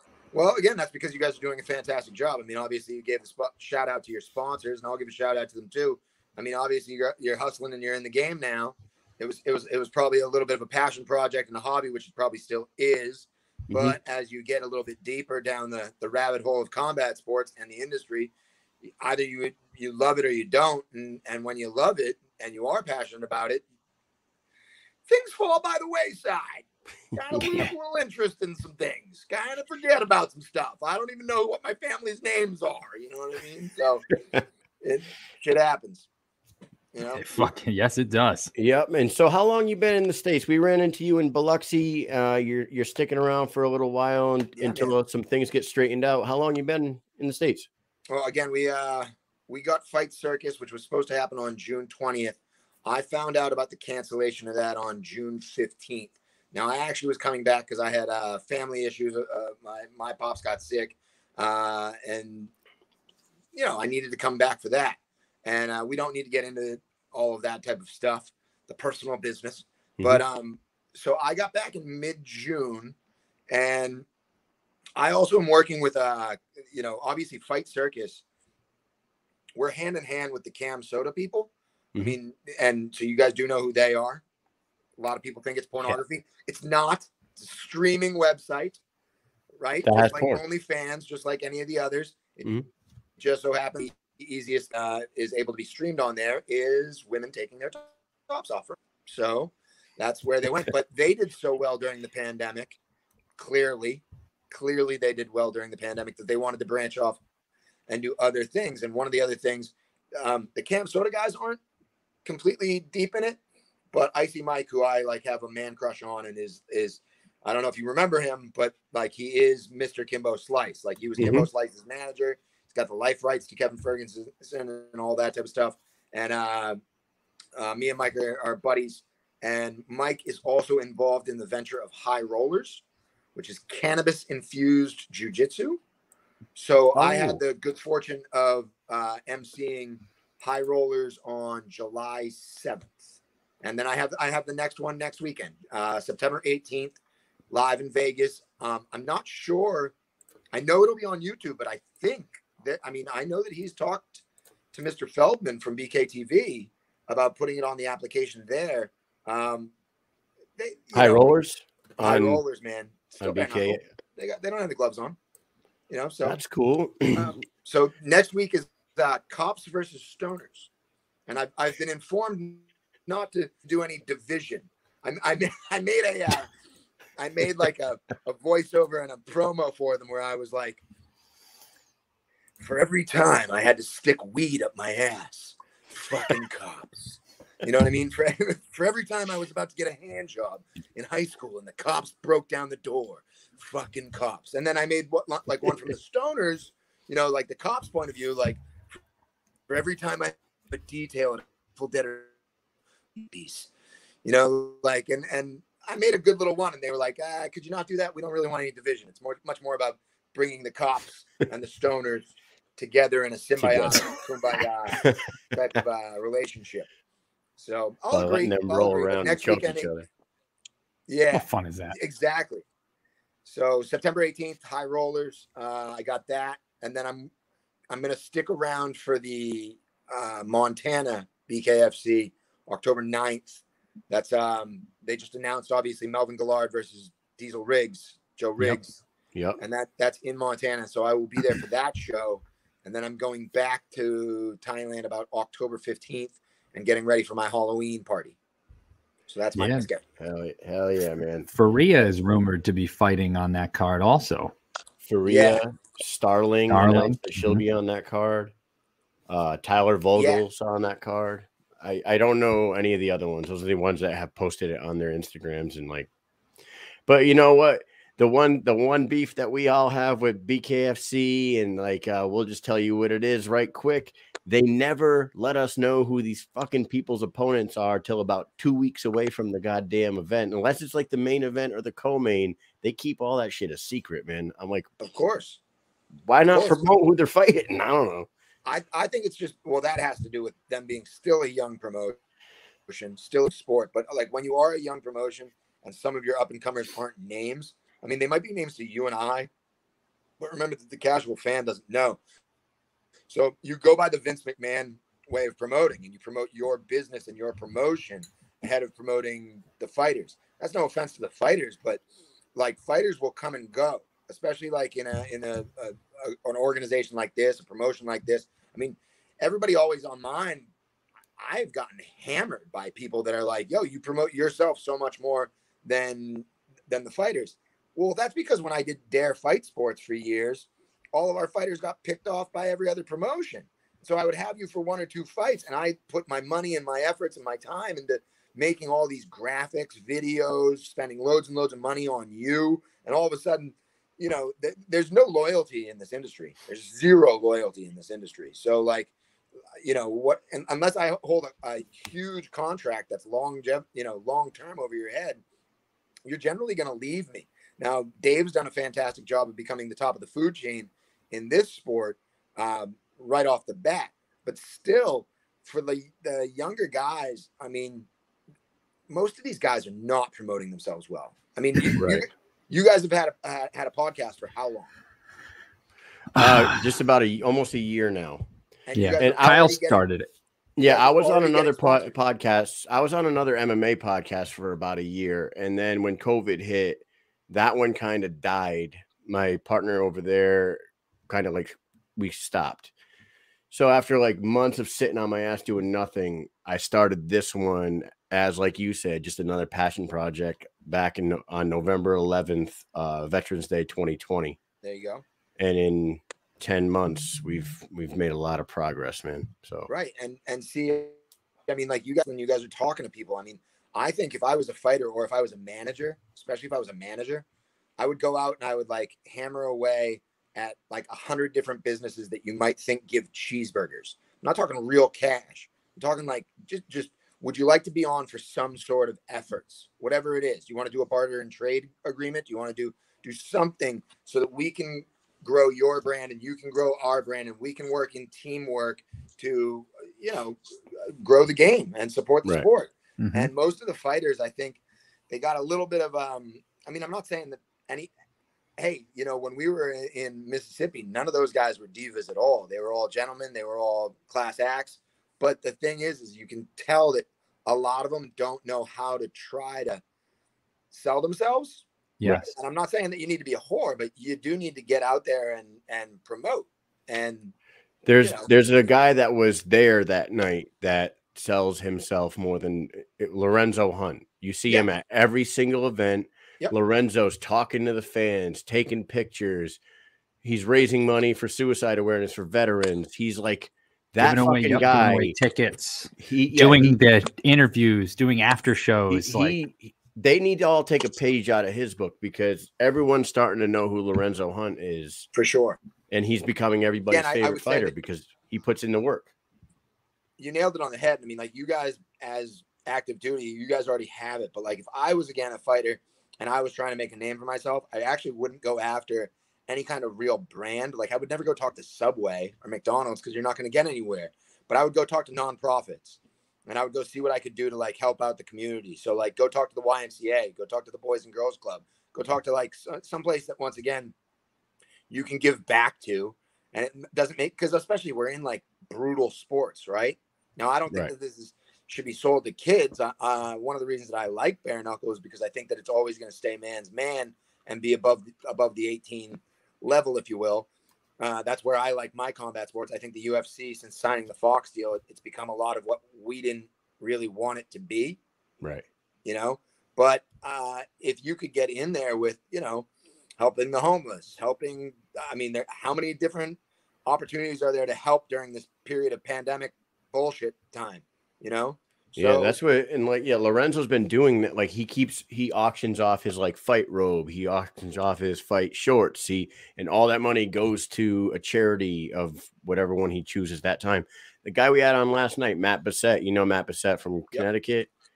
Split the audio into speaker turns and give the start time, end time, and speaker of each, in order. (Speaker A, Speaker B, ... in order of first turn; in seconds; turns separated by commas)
Speaker A: 0.3-18.3, Speaker B: 13.7-14.0, Speaker A: 19.0-23.6, Speaker A: 25.1-34.0, Speaker C: 27.4-27.6, Speaker A: 34.8-36.1, Speaker A: 36.9-37.2, Speaker C: 37.2-38.5, Speaker B: 38.5-47.7, Speaker A: 44.6-44.9, Speaker A: 48.1-62.5, Speaker A: 63.5-72.9, Speaker A: 73.5-74.0, Speaker A: 75.0-78.2, Speaker A: 79.6-84.2, Speaker A: 85.0-88.8, Speaker A: 89.6-92.5, Speaker B: 89.8-90.4, Speaker A: 93.2-102.8, Speaker A: 103.4-107.2, Speaker A: 107.9-111.6, Speaker A: 112.2-113.4, Speaker A: 113.9-126.8, Speaker B: 121.2-121.5, Speaker A: 127.5-132.8, Speaker A: 133.3-135.8, Speaker A: 136.6-143.0, Speaker C: 136.9-137.4, Speaker A: 143.6-147.0, Speaker A: 147.5-149.9, Speaker A: 150.5-154.2, Speaker A: 154.7-159.7, Speaker A: 160.6-161.3, Speaker B: 160.9-162.4, Speaker A: 162.0-165.2, Speaker B: 163.2-163.8, Speaker A: 165.9-166.4, Speaker B: 166.2-167.3, Speaker A: 167.1-170.7, Speaker A: 171.3-176.5, Speaker A: 177.2-180.8, Speaker A: 182.6-198.6, Speaker A: 199.7-202.3, Speaker A: 203.2-203.7, Speaker A: 204.2-216.9, Speaker B: 213.6-214.1, Speaker A: 217.6-219.9, Speaker B: 218.1-220.1, Speaker A: 221.1-222.6, Speaker C: 221.3-221.9, Speaker A: 223.4-227.3, Speaker A: 227.9-239.0, Speaker B: 239.3-239.6, Speaker A: 239.6-248.3, Speaker A: 249.3-250.0, Speaker C: 249.6-249.9, Speaker B: 250.2-251.5, Speaker C: 251.5-254.5, Speaker B: 255.0-258.5, Speaker A: 255.2-255.6, Speaker C: 256.7-257.6, Speaker B: 259.3-266.1, Speaker A: 260.2-260.4, Speaker B: 267.1-284.9, Speaker A: 285.0-285.6, Speaker B: 286.3-288.3, Speaker A: 286.5-286.9, Speaker A: 288.6-292.2, Speaker A: 292.9-299.5, Speaker A: 300.4-302.2, Speaker A: 303.3-312.0, Speaker A: 312.5-320.7, Speaker A: 321.4-349.1, Speaker A: 349.8-355.4, Speaker A: 356.3-368.1, Speaker A: 369.1-374.9, Speaker C: 371.8-372.2, Speaker B: 376.3-378.4, Speaker C: 376.3-376.8, Speaker A: 378.9-380.0, Speaker C: 378.9-380.3, Speaker B: 379.2-379.6, Speaker B: 380.8-392.9, Speaker A: 380.8-382.1, Speaker B: 393.7-404.6, Speaker A: 404.8-405.2, Speaker B: 405.6-409.9, Speaker A: 409.9-411.2, Speaker A: 411.7-417.4, Speaker A: 418.0-448.1, Speaker C: 443.2-443.5, Speaker A: 448.8-460.0, Speaker A: 460.9-467.5, Speaker C: 462.2-462.5, Speaker B: 468.0-479.8, Speaker A: 468.2-468.5, Speaker B: 480.4-485.4, Speaker C: 484.2-489.6, Speaker B: 486.2-487.0, Speaker B: 489.1-495.3, Speaker A: 495.3-495.8, Speaker B: 496.1-499.3, Speaker A: 497.1-497.9, Speaker A: 500.4-524.1, Speaker A: 525.1-540.7, Speaker A: 541.2-548.2, Speaker B: 548.6-548.9, Speaker A: 549.2-552.9, Speaker A: 553.4-562.5, Speaker B: 562.1-577.9